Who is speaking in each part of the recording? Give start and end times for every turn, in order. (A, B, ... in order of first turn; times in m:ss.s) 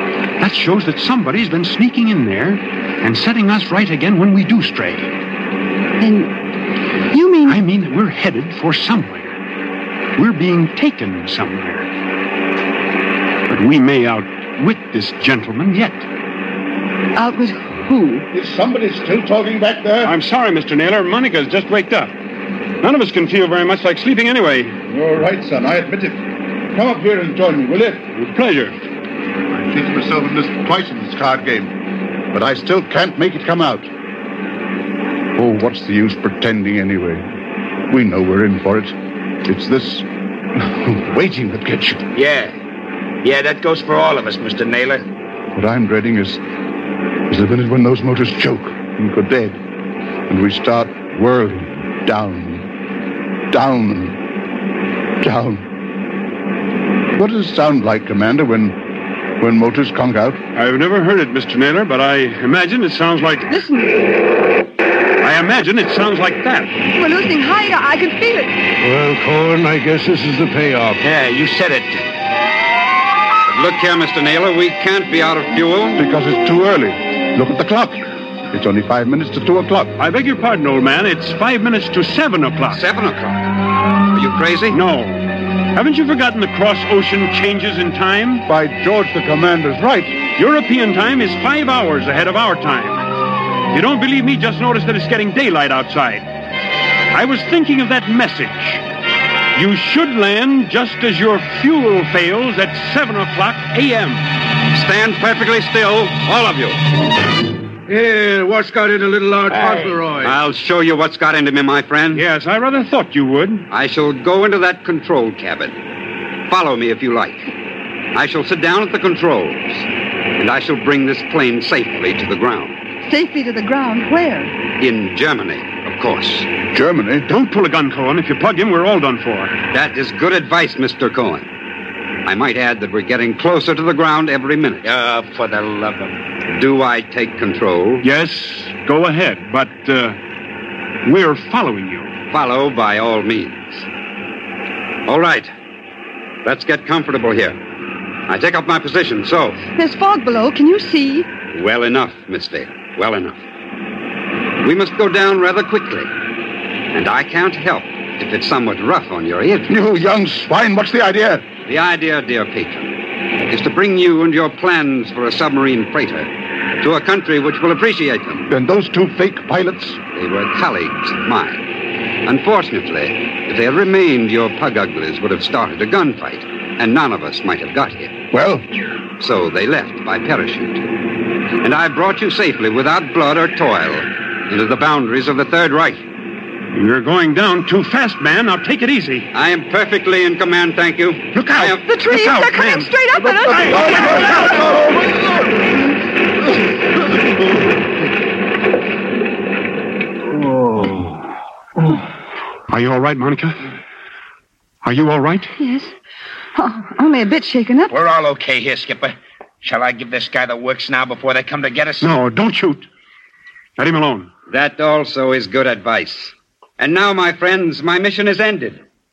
0:00.4-0:05.1 A
0:06.0-0:06.3 B
0:07.1-0:07.6 B
0:07.4-0:09.3 A
0:10.2-0:11.9 A
0:13.5-0:16.0 A
0:17.2-0:18.2 B
0:18.3-0:20.1 C
0:20.0-0:22.1 A
0:22.8-0:24.8 A
0:24.9-0:26.2 C
0:26.7-0:28.0 C
0:28.1-0:28.7 A
0:29.5-0:31.7 C
0:32.3-0:33.9 C
0:35.4-0:37.2 C
0:37.9-0:38.9 C
0:39.4-0:40.0 C
0:40.6-0:42.0 C
0:42.1-0:42.5 D
0:43.2-0:45.0 D
0:45.5-0:46.4 C
0:47.3-0:49.6 C
0:50.3-0:52.7 C
0:53.5-0:54.2 C
0:55.2-0:55.6 C
0:57.2-0:58.8 C
0:59.4-1:00.4 C
1:00.5-1:03.5 A
1:03.5-1:04.0 B
1:05.2-1:06.7 A
1:06.9-1:08.5 B
1:08.8-1:11.0 E
1:11.0-1:12.1 D
1:13.5-1:16.0 F
1:16.0-1:19.9 C
1:20.0-1:22.8 A
1:22.7-1:23.4 F
1:24.1-1:24.8 F
1:24.7-1:25.2 A
1:25.7-1:28.4 A
1:28.5-1:30.2 C
1:30.3-1:33.0 A
1:33.7-1:36.2 A
1:37.1-1:38.8 A
1:39.5-1:44.2 A
1:44.7-1:46.8 F
1:47.9-1:50.4 E
1:50.2-1:52.2 F
1:52.1-1:53.6 A
1:53.7-1:55.8 F
1:56.5-1:57.5 F
1:58.1-1:59.8 F
2:00.4-2:02.8 F
2:03.0-2:04.5 B
2:04.8-2:06.6 F
2:06.6-2:07.2 C
2:07.3-2:09.6 A
2:09.7-2:11.5 F
2:12.2-2:14.9 F
2:14.8-2:16.2 D
2:16.5-2:18.0 F
2:18.0-2:20.2 A
2:21.0-2:22.1 A
2:22.3-2:23.8 F
2:25.0-2:25.5 F
2:26.4-2:27.6 F
2:28.3-2:29.6 F
2:29.8-2:31.3 B
2:31.5-2:33.4 F
2:34.6-2:36.1 F
2:36.9-2:39.7 F
2:39.7-2:41.6 C
2:41.6-2:42.9 F
2:43.4-2:48.4 F
2:48.5-2:50.1 C
2:50.1-2:51.6 F
2:52.2-2:58.2 F
2:58.3-2:58.6 C
2:59.2-3:00.8 F
3:01.6-3:06.0 F
3:06.7-3:09.3 A
3:09.3-3:11.8 F
3:11.3-3:14.2 A
3:11.8-3:14.4 B
3:13.9-3:14.4 C
3:22.7-3:23.6 A
3:24.8-3:25.5 A
3:25.6-3:25.9 B
3:26.6-3:27.9 B
3:27.9-3:32.1 D
3:32.0-3:32.8 A
3:33.8-3:34.3 A
3:34.5-3:38.8 F